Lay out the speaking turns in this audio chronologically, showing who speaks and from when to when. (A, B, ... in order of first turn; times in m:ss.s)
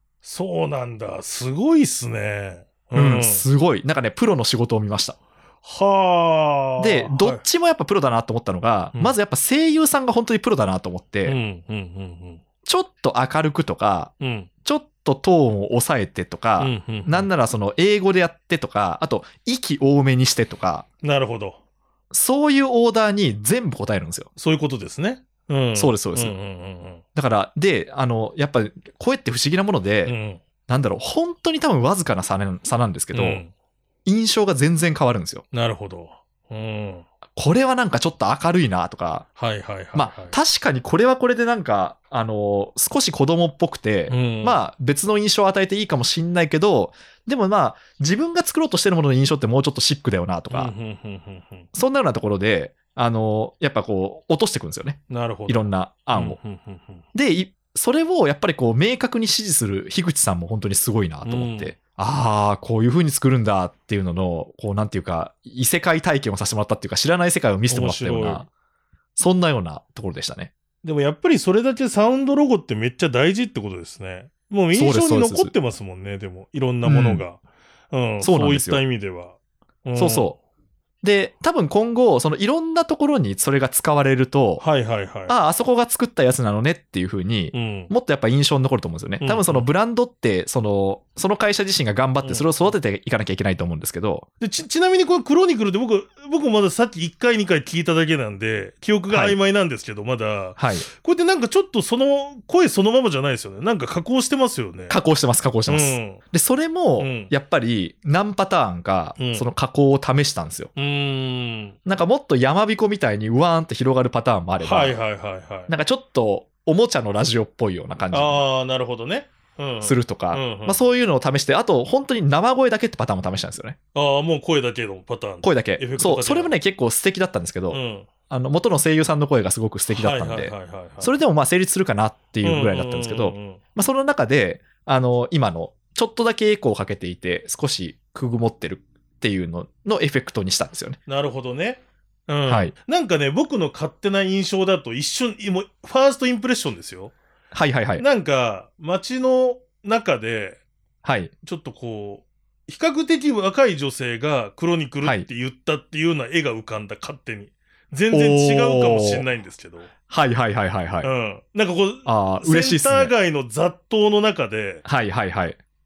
0:00.2-0:03.5 A
0:03.0-0:05.2 B
0:05.6-0:07.4 A
0:06.8-0:11.4 B
0:11.2-0:12.4 A
0:12.6-0:14.1 B
0:14.2-0:14.5 A
0:14.6-0:20.9 B
0:16.6-0:17.3 A
0:21.0-0:21.6 A
0:22.1-0:24.3 B
0:24.4-0:27.0 A
0:25.8-0:26.4 B
0:27.2-0:30.2 B
0:30.0-0:30.4 A
0:30.7-0:33.4 B
0:33.1-0:33.5 A
0:34.0-0:35.4 B
0:35.5-0:37.1 A
0:37.4-0:39.3 B
0:39.4-0:40.4 A
0:40.0-0:50.7 B
0:44.1-0:44.6 A
0:50.5-0:51.7 A
0:51.7-0:56.4 B
0:55.1-0:57.0 A
0:57.1-1:08.5 B
1:01.2-1:01.8 A
1:07.7-1:08.5 A
1:09.2-1:10.5 B
1:10.8-1:20.3 A
1:14.7-1:15.5 B
1:16.8-1:17.2 B
1:18.2-1:18.8 B
1:20.0-1:20.4 B
1:21.0-1:24.6 B
1:24.6-1:25.4 A
1:25.3-1:34.3 B
1:27.5-1:27.9 A
1:29.2-1:29.7 A
1:32.2-1:32.8 A
1:34.4-1:45.0 A
1:39.1-1:39.4 B
1:40.6-1:40.9 B
1:44.9-1:50.7 B
1:45.7-1:46.2 A
1:47.0-1:47.3 A
1:49.2-1:49.5 A
1:50.8-1:51.8 A
1:51.9-1:55.0 B
1:54.6-1:55.7 A
1:55.7-1:58.5 B
1:58.1-2:00.8 A
1:59.8-2:03.8 B
2:03.9-2:06.6 A
2:05.4-2:21.0 B
2:07.7-2:08.1 A
2:09.9-2:11.2 A
2:12.4-2:13.6 A
2:21.1-2:27.1 A
2:22.5-2:22.7 B
2:27.5-2:28.1 B
2:28.0-2:30.6 A
2:31.0-2:31.3 B
2:31.4-2:39.9 A
2:35.0-2:35.3 B
2:38.1-2:39.3 B
2:40.1-2:41.1 B
2:41.0-2:44.9 A
2:42.1-2:43.1 B
2:44.8-2:45.6 B